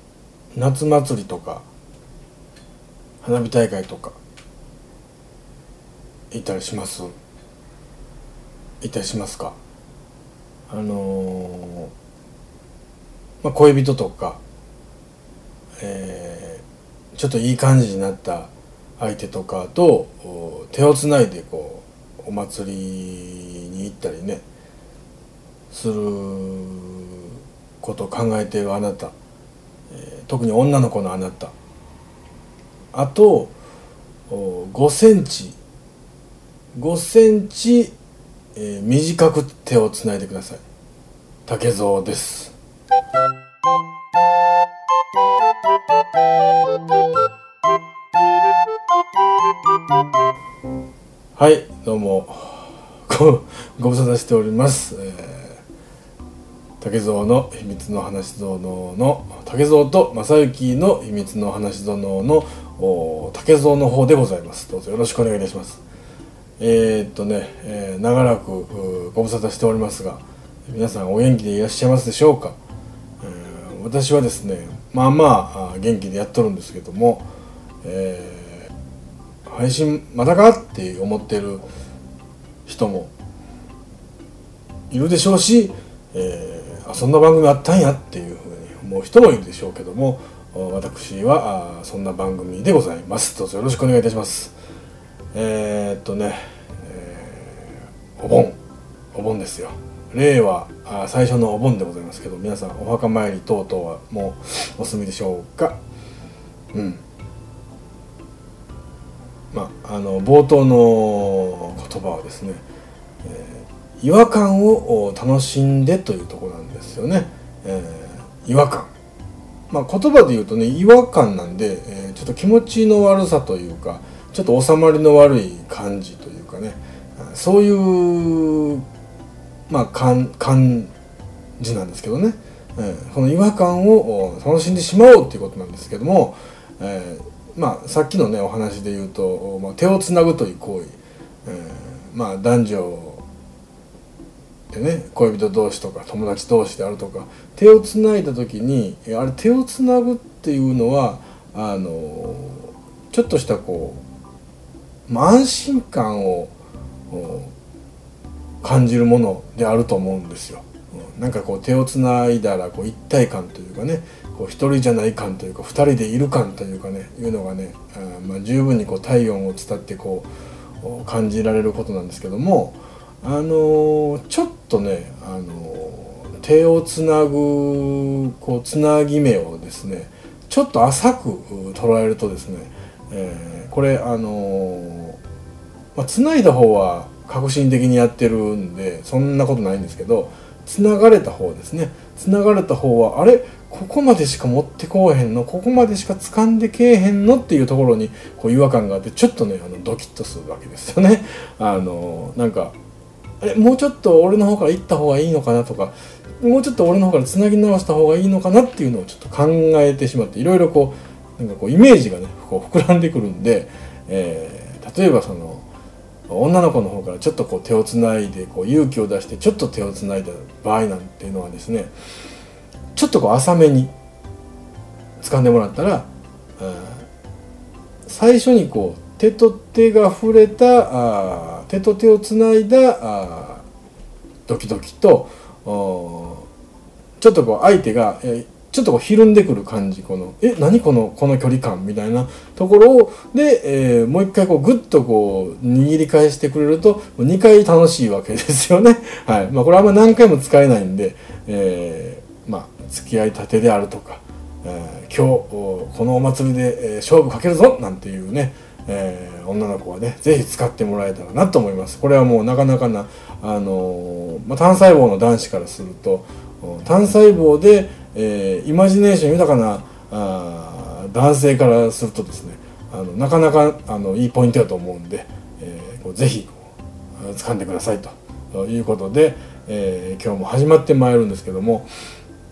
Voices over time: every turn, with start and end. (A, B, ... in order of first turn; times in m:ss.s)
0:00.5-0:01.6 A
0:03.2-0:04.2 A
0:06.3-0:07.1 A
0:08.8-0:09.6 A
0:10.7-0:11.9 A
0:13.4-0:14.4 A
0:15.8-0:24.4 A
0:25.7-0:27.2 A
0:27.8-0:29.1 A
0:29.9-0:31.5 A
0:32.9-0:33.5 A
0:34.3-0:35.6 A
0:36.7-0:38.0 A
0:38.5-0:40.6 A
0:41.4-0:42.5 A
0:51.4-0:55.6 A
0:56.8-1:05.8 A
1:06.6-1:12.6 A
1:13.2-1:17.3 A
1:17.8-1:18.7 A
1:19.4-1:21.6 A
1:22.6-1:23.1 A
1:24.9-1:34.5 A
1:35.3-1:38.6 A
1:39.1-1:45.8 A
1:46.7-1:47.0 A
1:49.5-1:52.6 A
1:53.2-1:58.9 A
1:59.7-2:08.8 A
2:09.7-2:10.9 A
2:11.6-2:23.2 A
2:24.7-2:34.0 A
2:35.1-2:36.5 A
2:37.1-2:37.5 A
2:38.6-2:50.3 A
2:50.8-3:05.2 A
3:05.9-3:22.8 A
3:23.4-3:35.6 A
3:36.3-3:41.9 A
3:42.9-3:43.9 A
3:45.2-3:47.1 A
3:48.0-3:53.6 A
3:54.5-3:56.5 A
3:57.2-4:41.9 A